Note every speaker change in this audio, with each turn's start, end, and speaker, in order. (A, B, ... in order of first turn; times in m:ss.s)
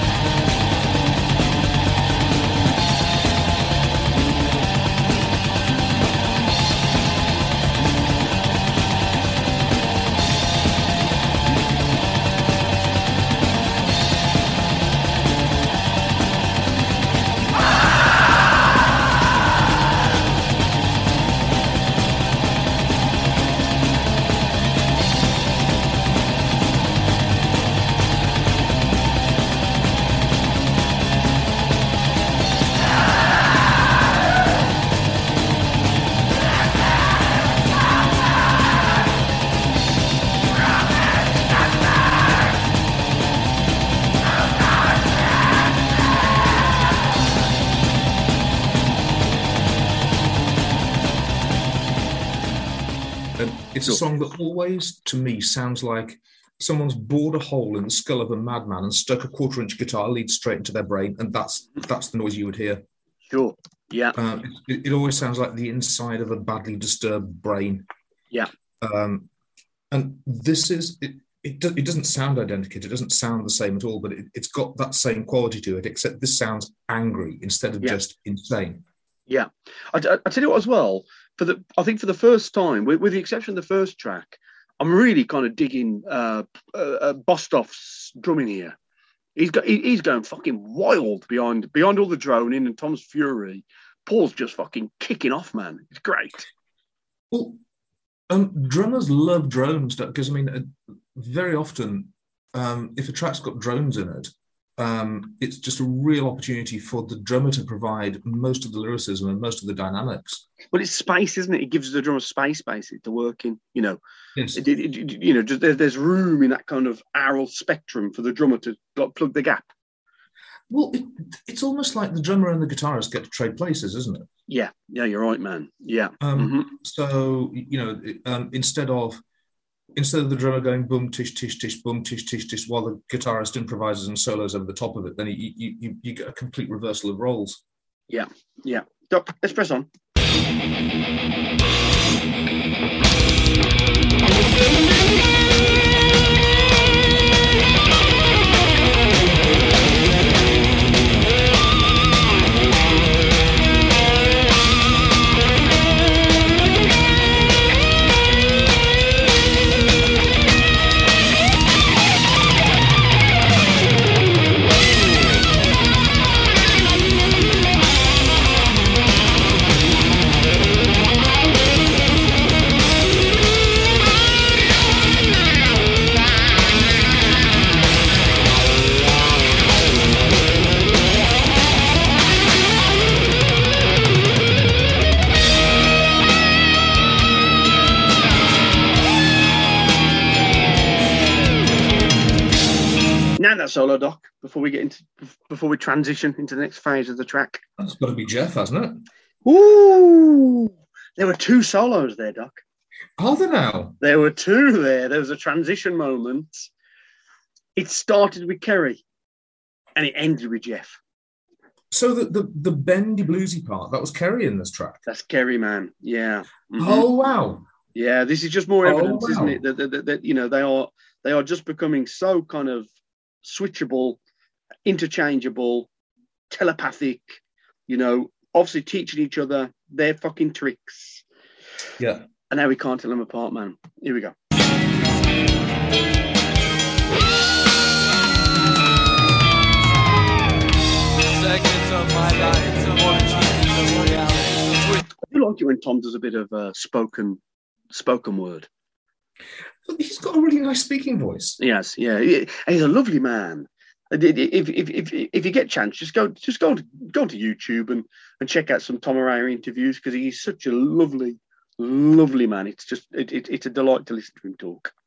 0:53.4-1:02.8 A
1:03.3-1:04.2 B
1:04.2-1:07.9 A
1:08.8-1:09.3 A
1:09.9-1:18.8 A
1:19.3-1:28.8 B
1:29.4-1:36.5 B
1:37.3-1:37.6 A
1:38.3-1:50.4 A
1:50.7-1:54.0 B
1:54.4-1:54.6 A
1:54.6-1:59.7 B
2:00.7-2:04.3 A
2:04.5-2:06.7 B
2:06.2-2:09.2 A
2:10.0-2:17.6 A
2:18.1-2:19.9 B
3:13.4-3:17.6 B
3:17.8-3:19.1 A
3:19.4-3:22.6 B
3:23.2-3:24.0 A
3:24.0-3:26.7 B
3:27.8-3:29.0 B
3:30.0-3:31.0 B
3:31.9-3:35.0 A
3:35.1-3:37.1 B
3:36.8-3:37.7 A
3:38.0-3:42.9 B
3:38.8-3:39.6 A
3:43.4-3:44.2 B
3:44.9-3:45.9 B
3:46.5-3:51.2 B
3:52.0-3:52.3 A
3:52.5-3:54.3 B
4:01.3-4:05.1 C
4:05.2-4:08.7 B
4:09.8-4:11.6 A
4:11.6-4:24.9 B